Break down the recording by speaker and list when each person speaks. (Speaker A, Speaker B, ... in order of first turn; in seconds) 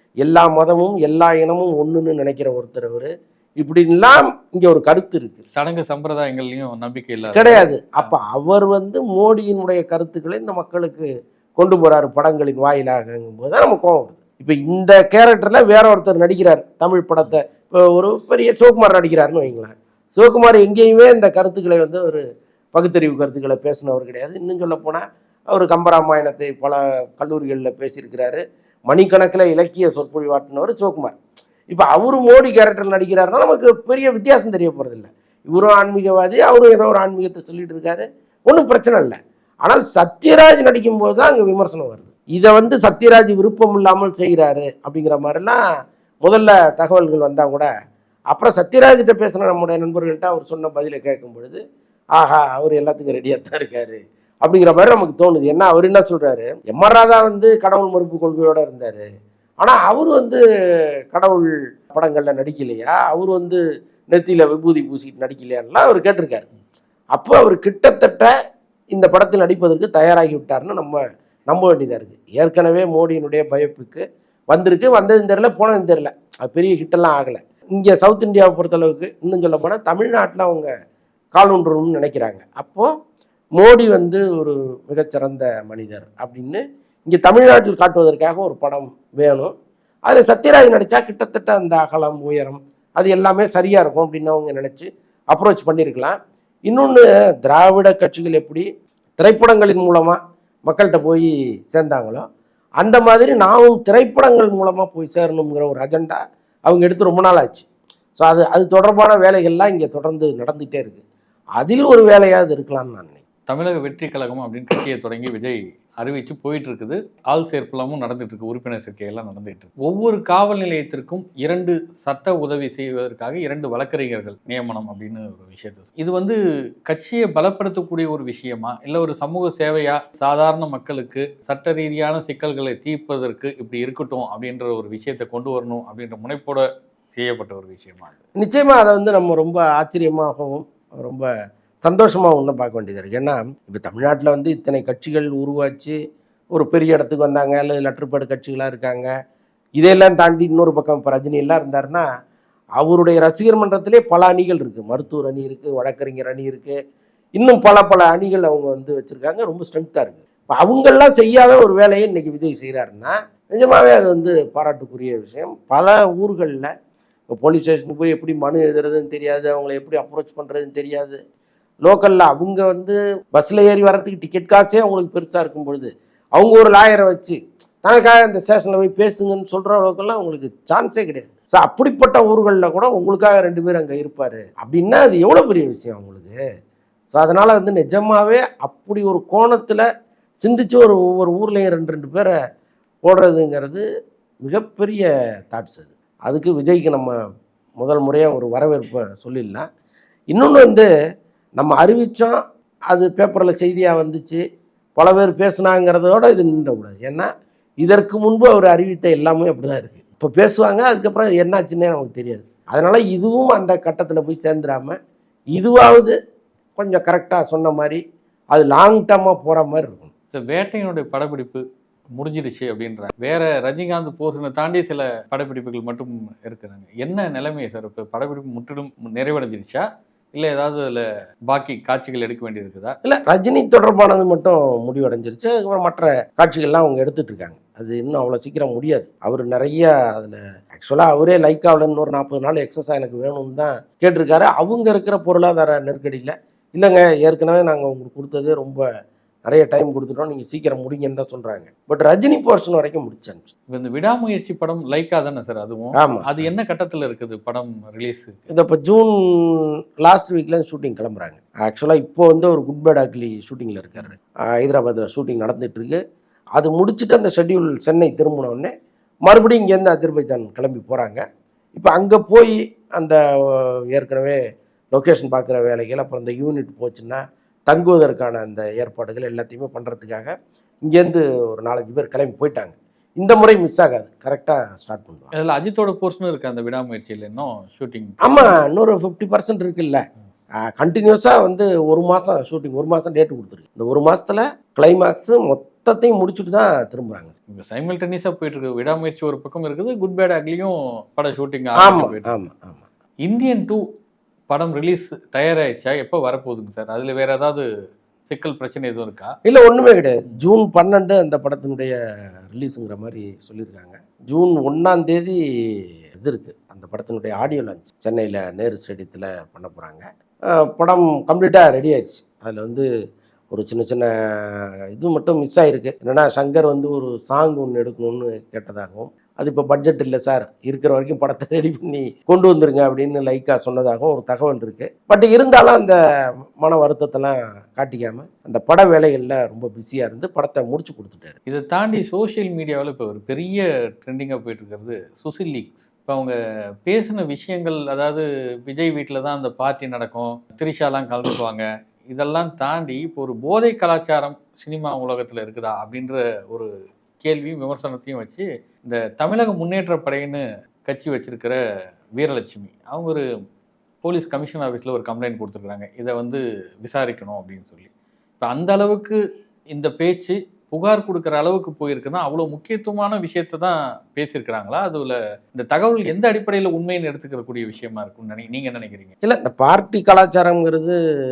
Speaker A: 0.2-5.4, 7.3-11.1, 11.6-22.2, 22.7-31.1, 31.7-45.6, 46.2-47.7, 48.3-51.6, 52.1-59.0, 59.6-60.4, 61.1-63.6, 64.1-66.5, 67.1-68.3, 68.9-71.0, 71.5-80.7, 81.3-82.9, 83.6-89.5, 90.1-96.2, 96.7-98.6, 99.2-102.2, 102.8-111.0, 111.6-113.2, 138.4-141.3, 141.8-145.9, 146.5-149.1, 149.8-152.1, 152.8-156.8, 157.4-166.7, 167.3-171.2, 171.8-186.4, 187.1-189.8, 190.4-192.3, 193.0-193.8, 194.4-197.1, 197.8-199.6, 200.3-200.9, 201.6-202.4, 202.9-204.4, 205.0-207.3, 207.8-214.9, 215.5-216.1, 216.8-218.0, 218.5-220.1, 233.0-248.8, 249.4-253.5, 255.9-256.3, 258.5-266.0, 266.6-268.7, 269.2-271.2, 271.8-274.4, 274.9-280.3, 280.8-285.3, 288.2-290.0, 290.8-297.3, 301.8-302.9, 309.4-311.9, 312.5-315.4, 316.2-320.0, 320.7-322.8, 323.5-324.1, 324.9-335.9, 336.6-341.4, 379.2-380.9
Speaker B: 5.5-8.1, 113.5-126.3, 126.9-138.1, 220.3-221.6, 222.1-232.9, 253.7-258.4, 285.3-288.5, 297.5-302.3, 303.2-303.8, 304.5-307.6, 308.3-309.3, 341.5-346.3, 346.9-356.7, 357.2-361.6, 362.2-363.2, 364.0-367.9, 368.4-369.2, 369.7-379.1